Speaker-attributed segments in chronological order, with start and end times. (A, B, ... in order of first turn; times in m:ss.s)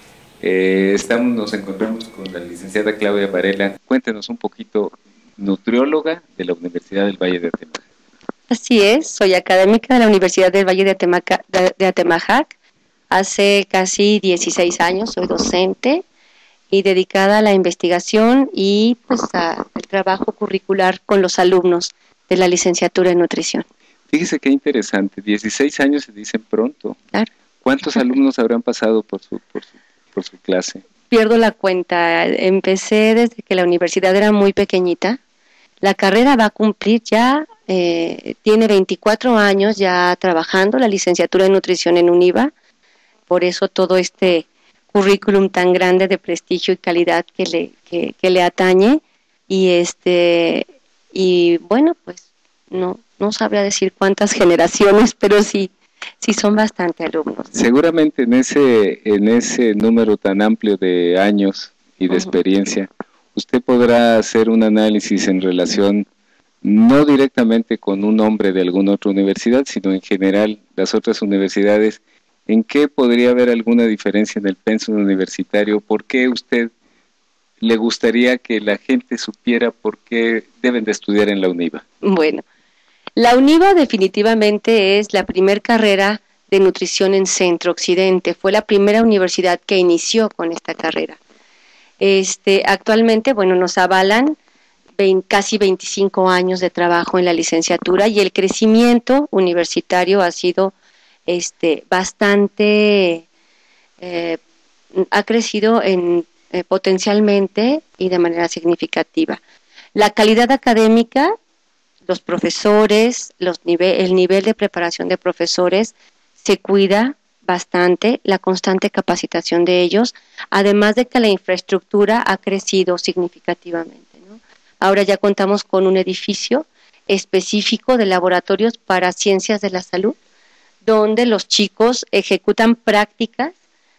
0:00.4-0:07.8 A
0:08.5-0:12.5 B
0:13.1-0:16.0 B
0:16.7-0:23.6 B
0:24.1-0:27.0 A
0:27.6-0:30.8 A
0:27.8-0:28.1 B
0:31.1-0:35.2 B
0:35.8-0:42.5 B
0:43.3-0:57.5 B
0:57.5-1:06.1 A
1:06.6-1:16.7 A
1:17.6-1:21.8 A
1:22.0-1:22.4 B
1:23.2-1:31.2 B
1:32.0-1:34.4 B
1:35.0-1:40.7 B
1:41.3-1:43.2 B
1:44.0-1:44.4 B
1:44.9-1:49.4 B
1:49.9-1:51.3 B
1:52.1-2:10.2 B
2:10.8-2:13.5 B